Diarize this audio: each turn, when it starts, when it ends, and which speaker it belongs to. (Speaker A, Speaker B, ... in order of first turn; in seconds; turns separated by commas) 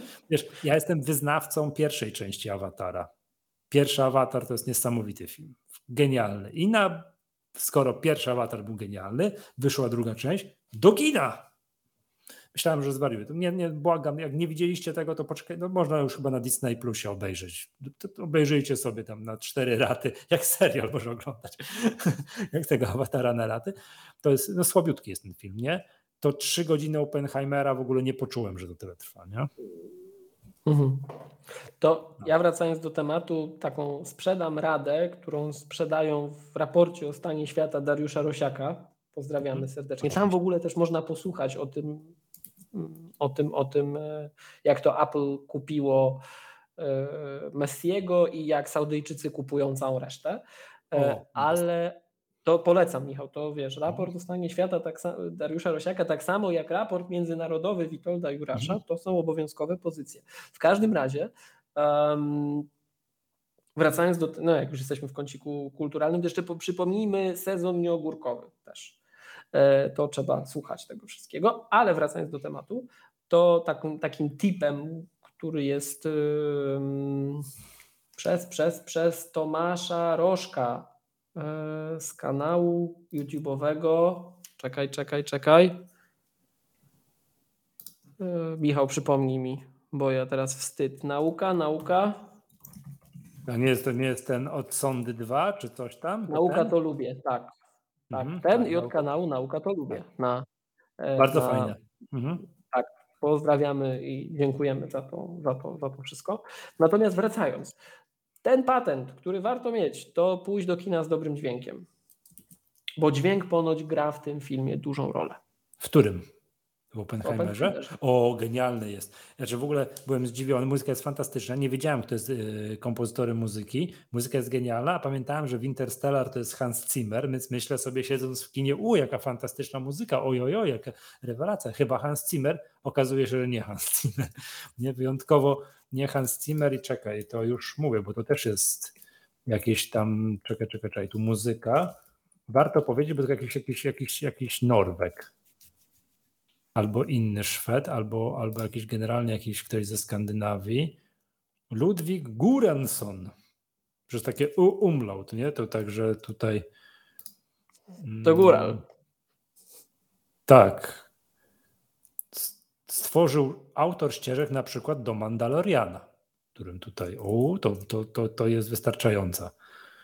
Speaker A: 0.3-3.1, Speaker A: 3.7-11.5, Speaker A: 12.5-29.5, Speaker B: 30.6-31.1, Speaker B: 31.8-42.1, Speaker A: 39.5-40.3, Speaker B: 42.7-46.2, Speaker B: 46.8-62.7, Speaker A: 50.9-51.6, Speaker B: 63.8-69.0, Speaker B: 69.5-77.5, Speaker B: 78.2-85.8, Speaker B: 88.2-92.3, Speaker A: 93.5-96.7, Speaker B: 96.3-97.5, Speaker A: 98.1-99.0, Speaker B: 98.1-100.5, Speaker B: 101.0-101.8, Speaker A: 101.2-102.4, Speaker B: 102.6-107.8, Speaker B: 108.4-111.9, Speaker B: 113.0-115.4, Speaker A: 115.8-116.2, Speaker A: 116.9-138.9, Speaker B: 117.2-117.9, Speaker A: 139.5-142.0, Speaker A: 142.5-145.3, Speaker A: 146.7-150.9, Speaker A: 151.7-153.3, Speaker A: 154.1-156.6, Speaker A: 158.0-158.8, Speaker B: 158.2-158.8, Speaker A: 160.5-161.1, Speaker A: 162.3-169.5